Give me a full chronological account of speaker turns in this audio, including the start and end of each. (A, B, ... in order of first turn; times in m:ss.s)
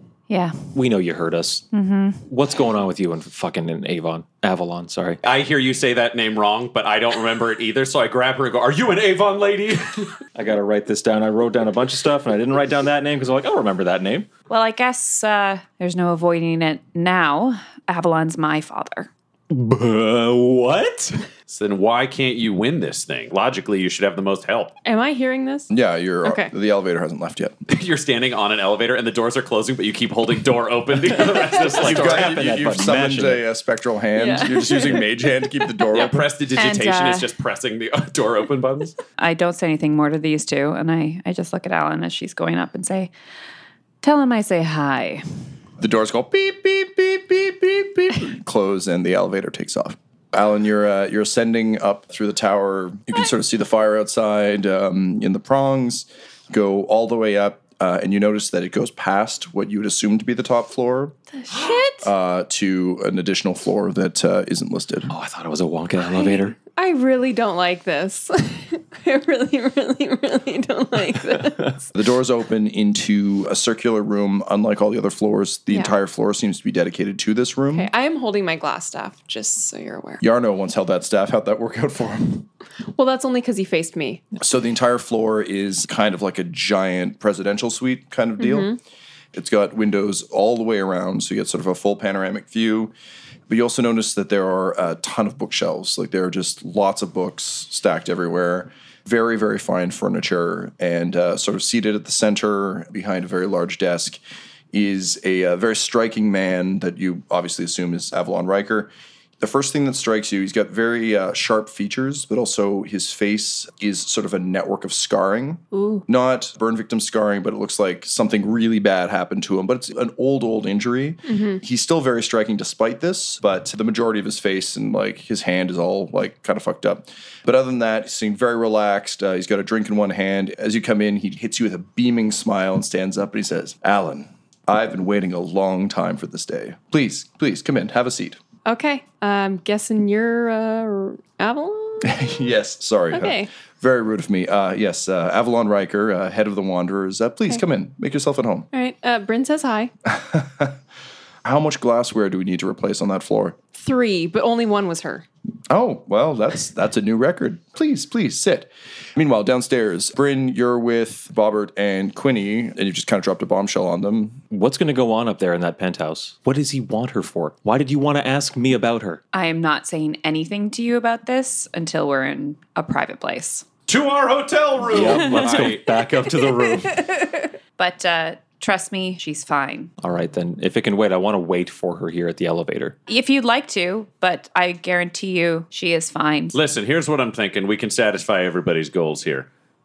0:00.3-0:00.5 A
0:00.7-0:01.7 B
0:01.7-0:02.2 A
0:02.2-0:05.2 B
0:05.2-0:10.2 C
0:10.3-0:14.3 B
0:14.5-0:19.1 A
0:19.5-0:21.2 B
0:21.5-0:24.7 C
0:24.8-0:25.7 D
0:25.7-0:27.6 E
0:26.2-0:26.5 D
0:27.7-0:33.0 C
0:31.1-0:33.4 B
0:31.7-0:36.2 E
0:34.2-0:35.0 D
0:35.9-0:38.9 C
0:36.5-0:37.2 A
0:39.2-0:43.1 A
0:44.0-0:45.2 A
0:45.8-1:01.2 E
1:01.4-1:02.1 D
1:02.0-1:05.1 E
1:05.1-1:06.6 B
1:06.0-1:11.9 D
1:11.9-1:17.9 E
1:17.7-1:20.2 D
1:20.2-1:22.5 E
1:23.0-1:24.2 D
1:24.4-1:28.7 E
1:28.4-1:28.8 D
1:29.3-1:32.9 E
1:33.5-1:44.2 E
1:44.7-2:18.4 E
1:55.7-1:56.0 D
2:01.2-2:01.6 D
2:18.6-2:22.2 D
2:22.0-2:28.7 E
2:23.1-2:23.5 D
2:28.7-2:29.9 D
2:30.0-2:30.8 E
2:31.4-2:33.6 E
2:33.7-2:35.2 D
2:35.7-2:44.4 E
2:44.5-2:49.2 B
2:49.3-2:53.6 A
2:53.9-2:56.8 C
2:54.8-2:57.0 B
2:57.8-2:59.9 A
3:00.0-3:03.0 B
3:03.1-3:06.6 A
3:06.5-3:09.5 C